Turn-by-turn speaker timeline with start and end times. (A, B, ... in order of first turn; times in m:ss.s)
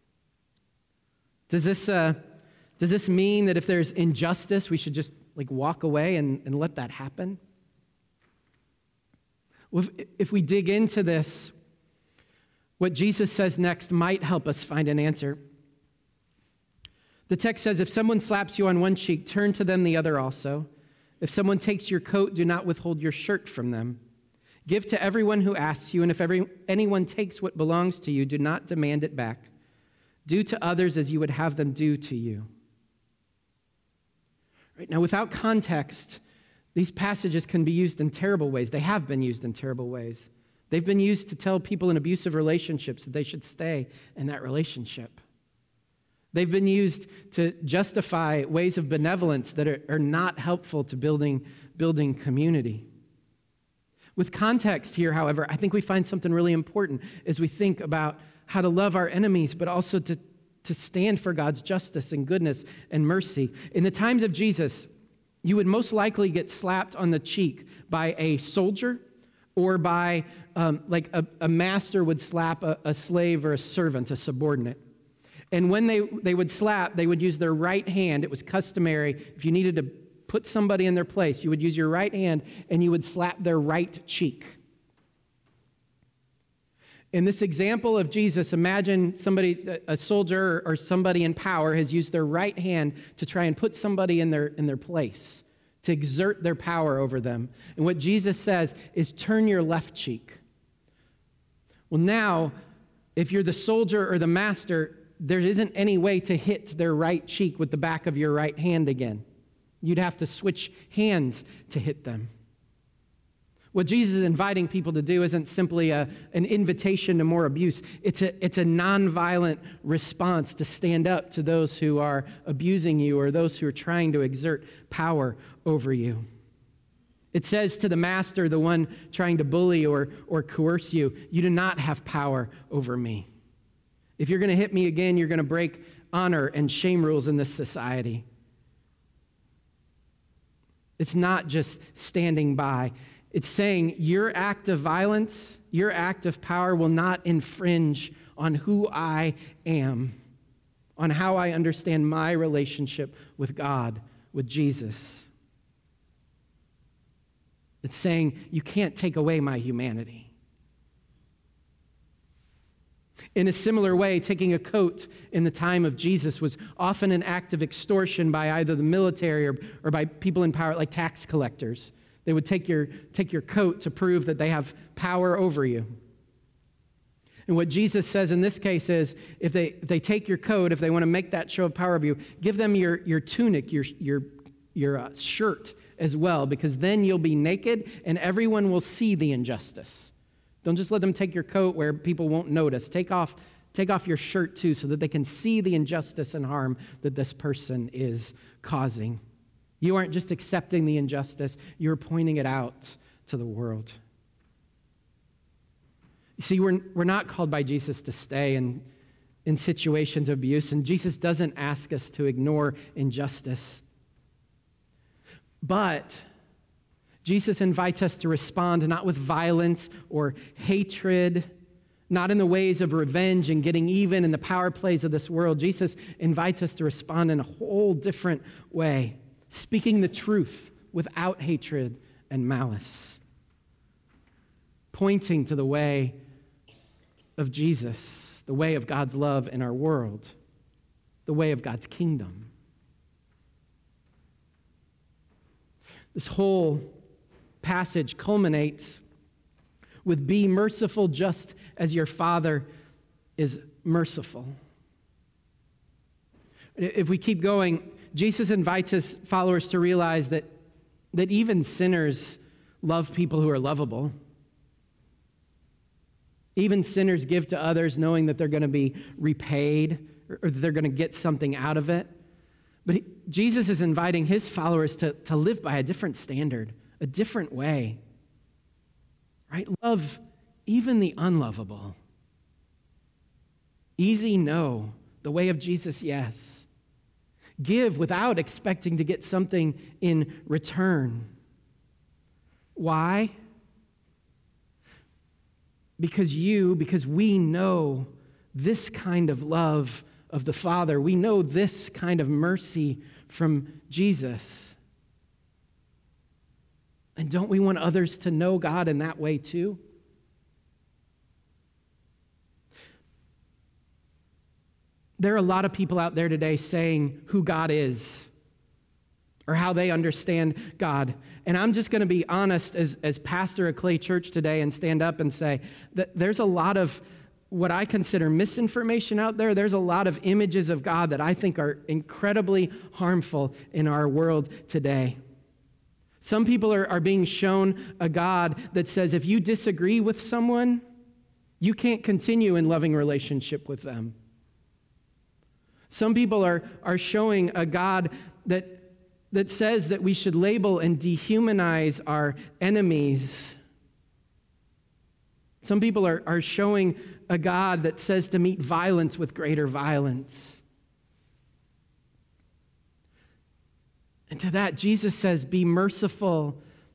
0:01.5-0:02.2 A
0:02.8-0:07.4 A
0:09.7-0:11.5 A
0:12.8-0:15.4 A
0:17.3-0:20.7 A
0:21.2-0:24.0 A
0:24.7-0:29.5 A
0:30.2-0:32.5 A
0:34.8-0:36.2 A
0:36.7-0:45.2 A
0:46.3-0:52.8 A
0:54.2-1:04.9 A
1:05.4-1:09.0 A
1:09.6-1:14.8 A
1:15.5-1:24.6 A
1:27.1-1:40.4 A
1:41.9-1:42.5 A
1:43.2-1:49.2 A
1:49.8-1:52.3 A
1:53.7-2:06.2 A
2:07.3-2:13.3 A
2:14.2-2:18.2 A
2:21.0-2:30.1 A
2:31.0-2:35.3 A
2:37.8-2:40.3 A
2:43.3-2:55.9 A
2:57.5-3:10.1 A
3:10.6-3:19.2 A
3:19.8-3:24.0 A
3:26.4-3:28.8 A
3:29.4-3:33.8 A
3:35.6-3:36.2 A
3:37.2-3:41.5 A
3:42.1-3:53.2 A
3:54.9-3:56.2 A
3:57.4-4:00.3 A
4:01.2-4:02.5 A
4:06.1-4:07.0 A
4:07.6-4:09.0 A
4:10.0-4:12.7 A
4:13.4-4:14.5 A
4:16.8-4:20.5 A
4:21.1-4:24.1 A
4:26.6-4:32.1 A
4:32.8-4:38.0 A
4:39.5-4:42.0 A
4:44.0-4:46.7 A
4:47.6-4:51.3 A
4:52.8-4:53.3 A
4:56.0-5:04.8 A
5:07.2-5:09.8 A
5:15.2-5:18.3 A
5:19.5-5:35.2 A
5:36.2-5:40.8 A
5:41.6-5:44.1 A
5:45.9-5:53.6 A
5:55.6-6:00.6 A
6:04.3-6:06.6 A